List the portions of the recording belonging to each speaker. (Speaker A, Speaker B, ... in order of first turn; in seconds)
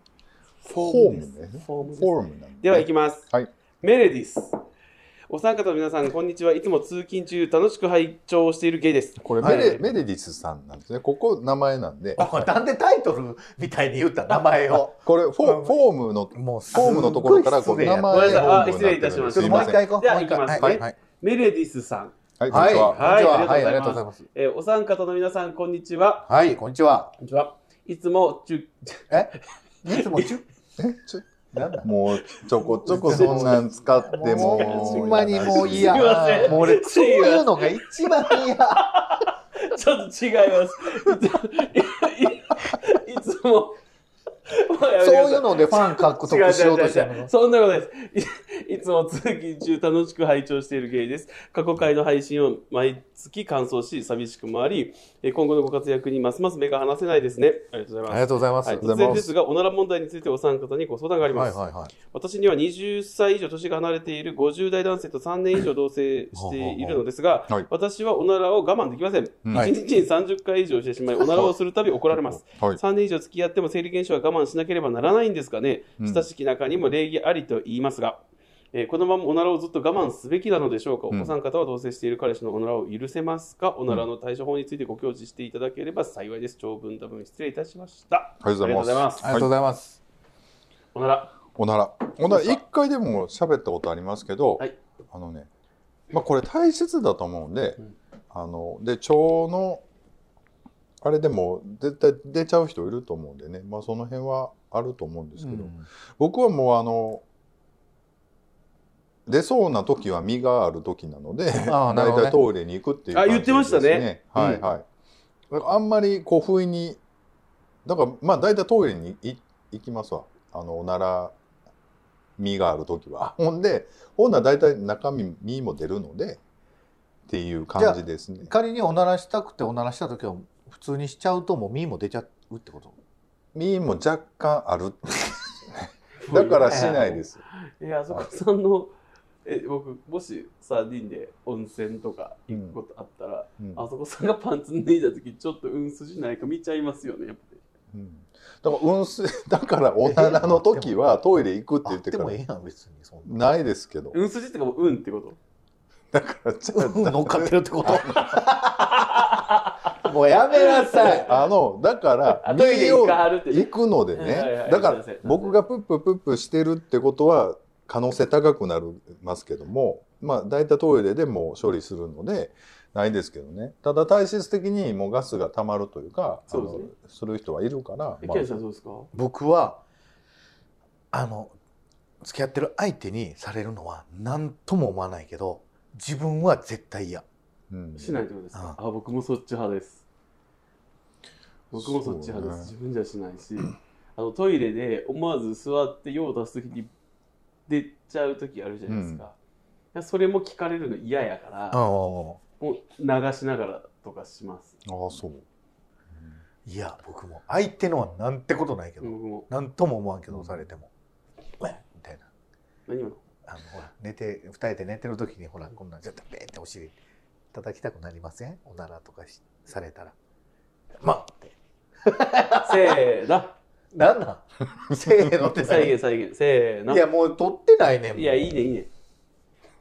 Speaker A: 0.6-3.3, 3.8-4.6, 5.3-9.8, 18.0-26.3, 27.2-29.4, 29.9-30.3, 34.3-43.8, 44.5-78.2, 78.7-89.3, 90.9-91.4, 92.3-92.6, 113.1-114.1, 136.2-138.9, 139.4-147.6, 154.1-155.4, 158.8-161.5, 162.4-165.6, 176.5-176.9, 178.2-179.1, 187.9-190.0, 191.7-196.9, 197.7-199.3, 199.9-201.8, 202.6-204.8, 209.0-209.5, 212.9-213.2, 222.6-223.6, 225.6-227.0, 228.1-228.9
Speaker B: 0.7-3.5, 9.2-12.5, 14.9-19.9, 20.5-20.8, 22.4-23.0, 30.8-31.2, 31.8-36.3, 58.8-59.3, 69.5-69.7, 71.2-71.5, 72.1-72.8, 76.0-76.3, 88.4-89.5, 91.5-95.5, 96.1-97.8, 98.3-99.8, 101.0-107.2, 109.3-114.8, 115.5-117.0, 117.8-121.3, 122.4-126.4, 127.3-128.5, 133.5-137.4, 142.5-142.8, 143.6-143.8, 147.9-152.4, 153.2-154.2, 156.1-158.4, 161.1-178.6, 187.7-188.2, 191.8-192.7, 198.9-199.2, 204.8-205.4, 206.1-206.4, 210.3-210.6
Speaker C: 9.4-9.8, 12.2-15.8, 16.3-18.7, 19.3-20.9, 22.5-24.2, 26.2-27.1, 29.1-30.4, 31.5-31.9, 32.6-38.9, 45.0-47.3, 58.1-58.9, 61.3-61.9, 66.3-67.0, 89.2-90.0, 105.4-105.8, 111.6-112.4, 114.3-114.6, 127.8-133.0, 136.6-137.0, 150.0-151.1, 151.8-153.5, 156.7-159.3, 159.9-161.3, 179.1-179.8, 181.1-181.5, 182.2-187.2, 201.7-202.4, 206.7-210.9, 211.6-212.3, 213.4-217.0, 217.5-220.1, 221.0-223.0, 223.9-226.0, 226.9-228.7